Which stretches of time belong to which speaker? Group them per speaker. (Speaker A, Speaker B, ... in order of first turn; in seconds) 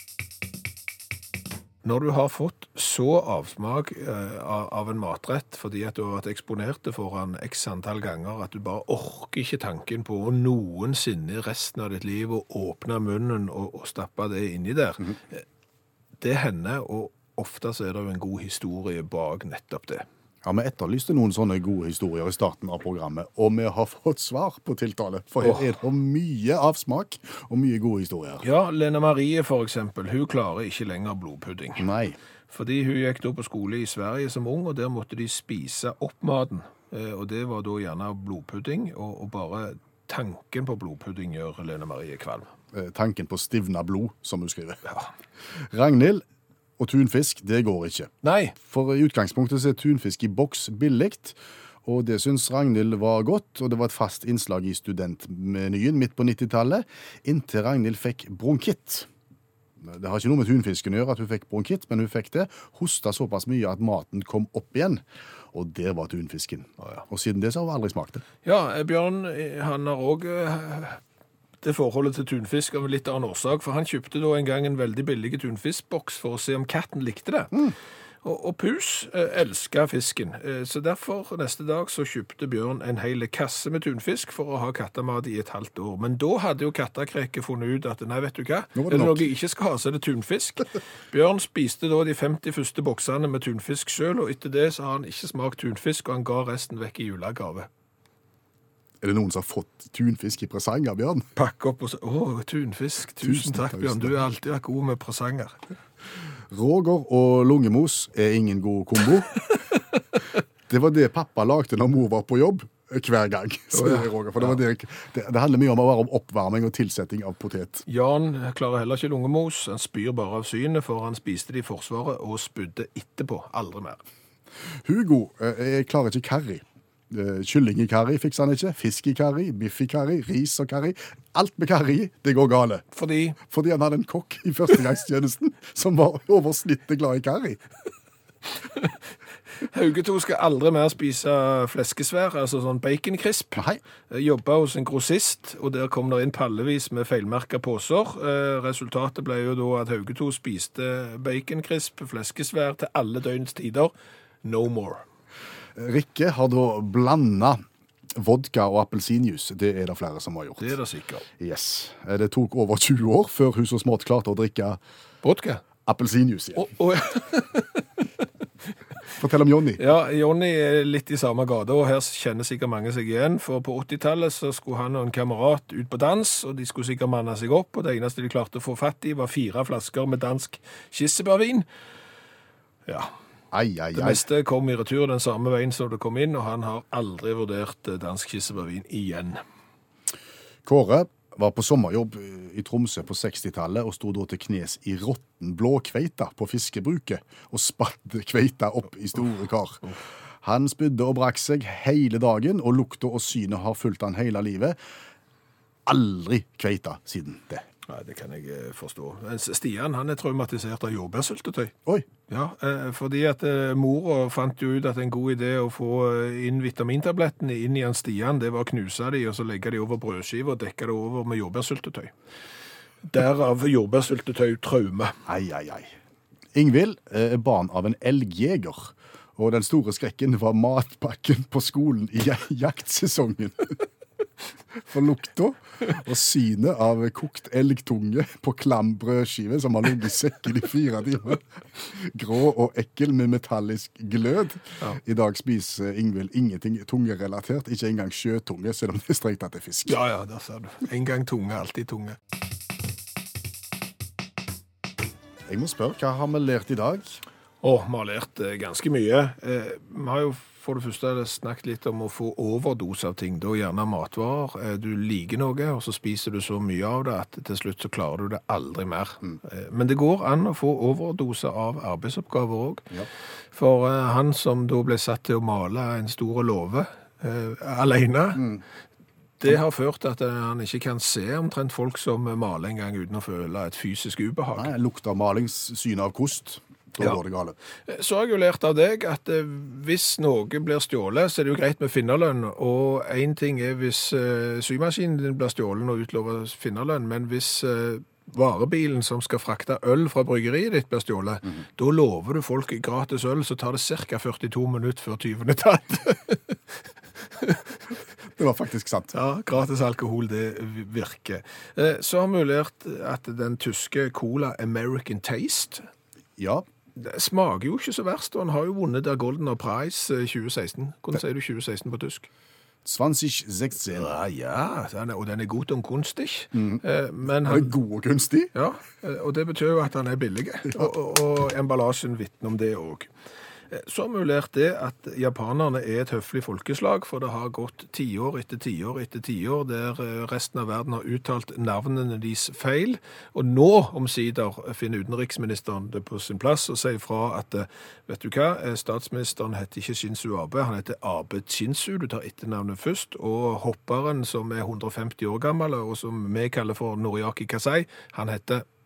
Speaker A: 1.8-15.4, 16.2-20.1, 28.4-31.9, 32.5-42.5, 48.2-48.5, 68.5-71.0, 71.6-77.6, 78.2-97.7, 101.3-105.6, 113.7-114.6, 117.9-124.0, 132.9-133.4, 139.7-153.9, 154.4-155.0, 160.6-161.3, 165.2-165.6, 166.6-168.1, 169.8-181.7, 182.9-183.1, 183.9-189.4, 207.9-211.7, 212.3-222.1, 223.1-225.2, 249.9-252.2, 257.6-272.9, 273.5-278.5, 279.4-284.7, 287.9-306.6, 307.3-307.8, 309.1-315.9, 317.0-322.3, 323.9-327.7, 328.5-333.1, 333.7-358.6
Speaker B: 20.4-28.4, 31.8-32.2, 42.7-44.9, 45.6-46.2, 46.8-59.1, 59.8-68.2, 88.8-89.3, 99.0-101.3, 103.2-104.2, 106.5-109.3, 110.7-117.8, 124.8-132.8, 133.5-137.6, 143.6-143.8, 155.8-157.6, 158.1-160.8, 161.4-164.8, 165.9-166.7, 169.2-169.8, 183.5-184.2, 190.7-199.8, 200.4-204.8, 205.9-207.7, 225.3-225.9, 226.5-233.8, 234.8-250.0, 255.5-257.2, 278.4-278.6, 284.6-287.6, 308.4-309.1, 316.4-316.6, 322.9-324.1, 326.5-328.5